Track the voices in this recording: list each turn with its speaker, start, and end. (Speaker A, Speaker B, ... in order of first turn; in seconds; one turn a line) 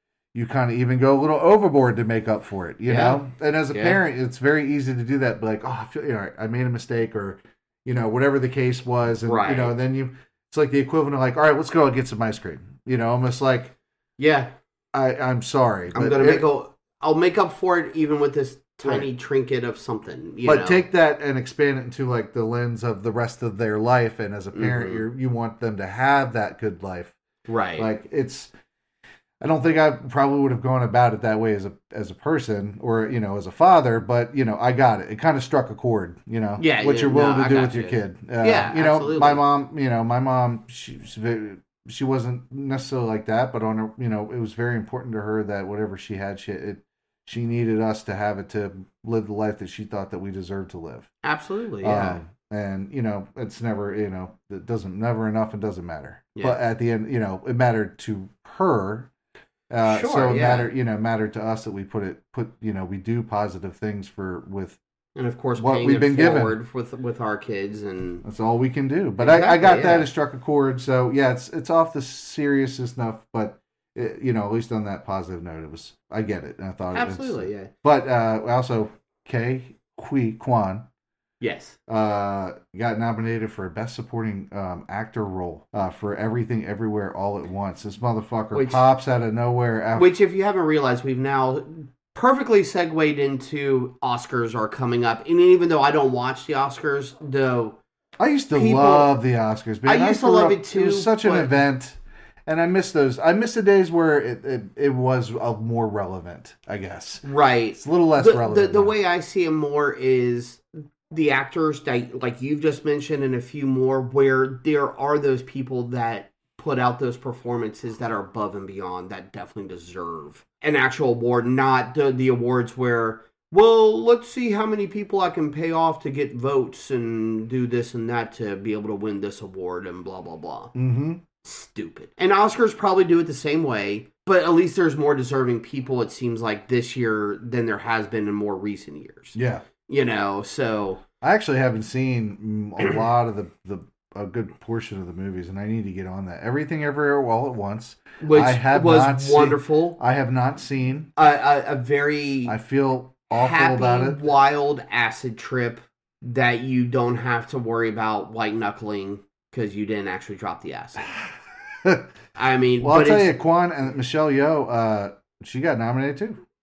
Speaker A: 0.3-13.7
Speaker B: 2.9-4.0
Speaker B: 9.2-9.7
Speaker B: 14.2-14.5
Speaker A: 14.9-16.5
Speaker B: 15.9-20.8
Speaker A: 18.8-19.1
Speaker A: 20.4-27.2
Speaker B: 24.5-25.1
Speaker B: 27.5-27.9
Speaker A: 27.8-28.5
Speaker A: 29.4-51.1
Speaker B: 36.6-39.4
Speaker B: 51.2-52.2
Speaker A: 51.8-59.1
Speaker A: 59.7-64.8
Speaker B: 59.9-60.7
Speaker B: 65.2-68.2
Speaker A: 65.6-66.6
Speaker A: 68.2-80.9
Speaker B: 69.2-70.1
Speaker B: 76.9-77.7
Speaker B: 81.4-81.8
Speaker A: 81.9-90.1
Speaker B: 88.5-88.8
Speaker B: 90.0-97.8
Speaker A: 98.2-109.0
Speaker B: 98.5-99.1
Speaker B: 99.9-101.5
Speaker B: 107.2-130.7
Speaker A: 130.8-131.2
Speaker B: 131.4-139.4
Speaker A: 139.3-139.7
Speaker B: 139.9-141.0
Speaker A: 141.2-151.1
Speaker B: 148.2-150.0
Speaker B: 151.2-152.6
Speaker A: 152.5-154.2
Speaker B: 153.3-161.1
Speaker B: 162.4-163.4
Speaker A: 162.8-166.4